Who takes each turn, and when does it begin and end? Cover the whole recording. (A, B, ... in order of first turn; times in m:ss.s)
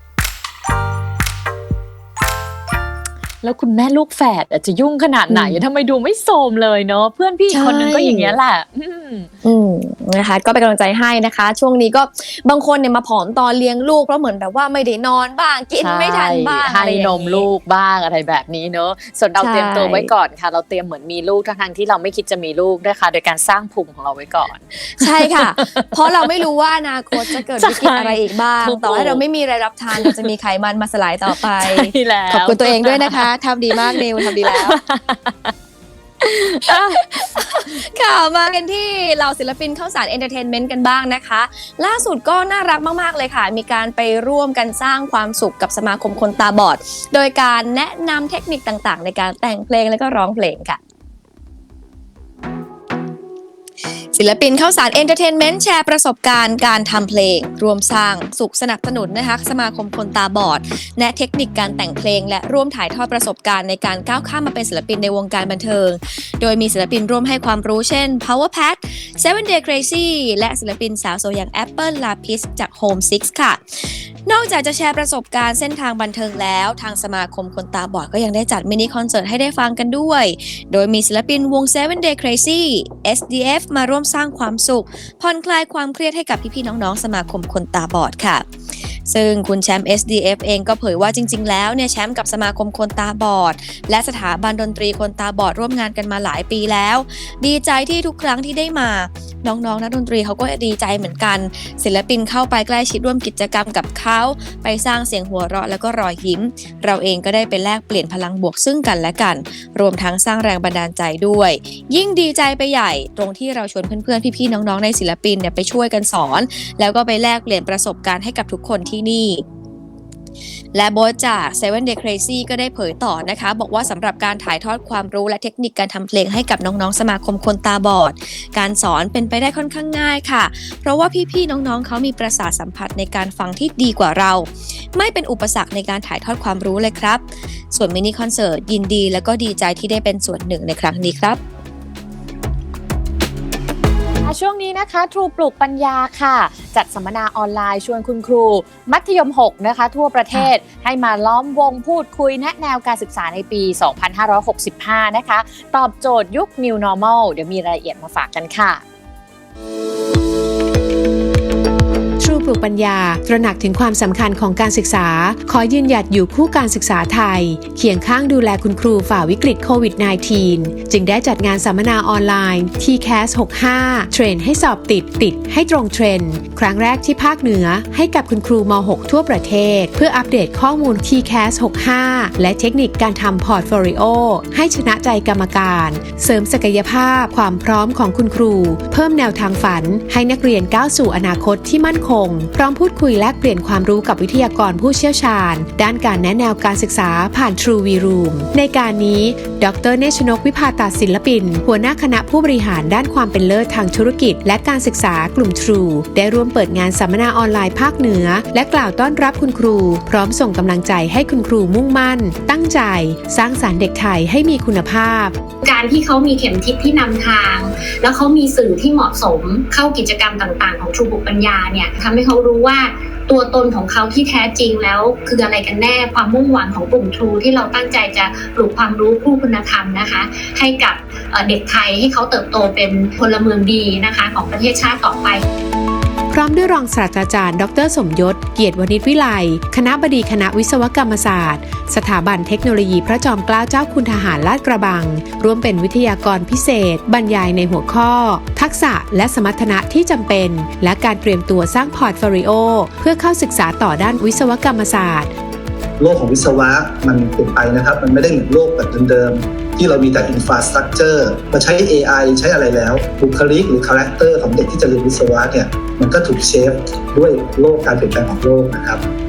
0:03.4-0:09.3 A
0:05.3-0:05.6 B
0:07.5-0:08.4 B
0:09.4-0:17.5 B
0:15.8-0:26.2 A
0:19.4-0:20.1 B
0:24.9-0:34.8 B
0:27.3-0:29.2 A
0:29.9-0:30.3 A
0:31.3-0:35.5 A
0:36.2-0:50.8 B
0:36.4-0:37.0 A
0:54.1-1:28.4 B
1:29.0-1:59.4 B
2:00.7-2:21.4 B
2:24.2-2:38.8 A
2:42.2-3:35.3 C
3:35.6-3:55.4 D
3:56.3-4:15.3 C
4:16.0-4:29.0 E